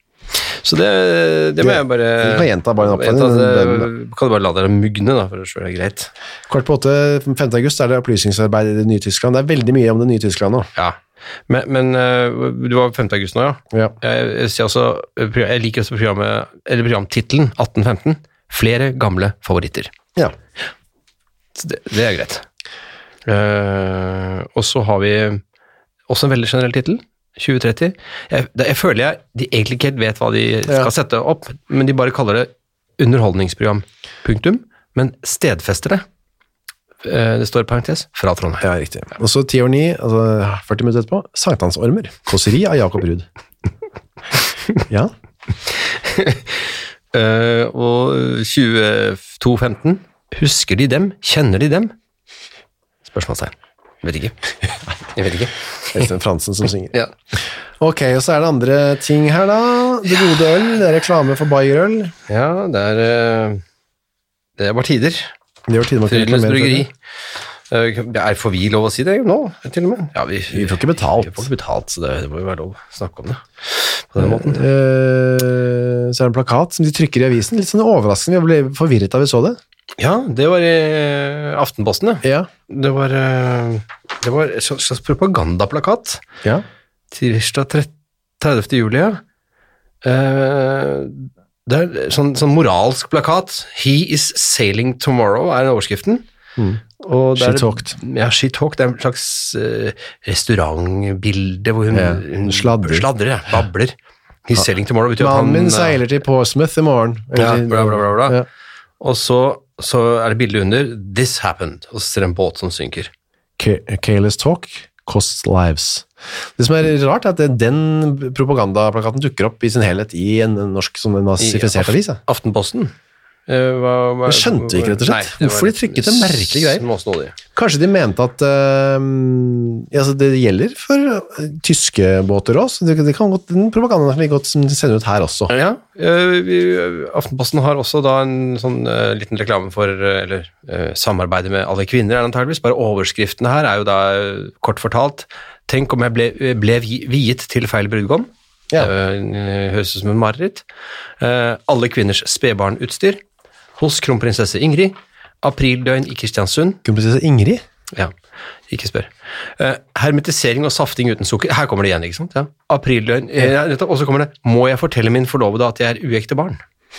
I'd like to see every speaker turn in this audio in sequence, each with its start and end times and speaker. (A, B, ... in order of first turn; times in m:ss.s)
0:00.3-0:06.1 A
0:01.6-0:03.9 B
0:06.5-0:10.7 B
0:10.8-0:19.9 A
0:21.6-0:22.4 A
0:23.3-0:25.4 A
0:26.1-0:36.0 A
0:37.0-0:38.7 A
0:38.6-0:43.3 B
0:45.7-0:51.9 A
0:53.1-0:56.0 A
0:55.9-0:56.9 B
0:57.8-1:02.1 B
1:02.3-1:03.6 A
1:04.6-1:05.3 A
1:05.7-1:06.9 B
1:06.1-1:06.9 A
1:07.7-1:14.6 A
1:10.5-1:11.5 B
1:14.2-1:19.6 B
1:20.0-1:26.2 A
1:22.2-1:22.5 B
1:27.1-1:29.2 A
1:30.0-1:36.2 A
1:37.0-1:44.0 A
1:37.4-1:37.9 B
1:41.9-1:43.1 B
1:44.5-1:46.0 A
1:45.2-1:48.4 B
1:47.3-1:48.4 A
1:49.0-1:53.1 A
1:53.6-2:02.2 B
2:01.4-2:02.9 A
2:03.5-2:07.4 A
2:04.3-2:06.8 B
2:07.5-2:15.5 B
2:15.5-2:30.7 A
2:31.2-2:33.2 A
2:33.8-2:36.8 A
2:36.8-2:37.6 B
2:38.7-2:46.6 A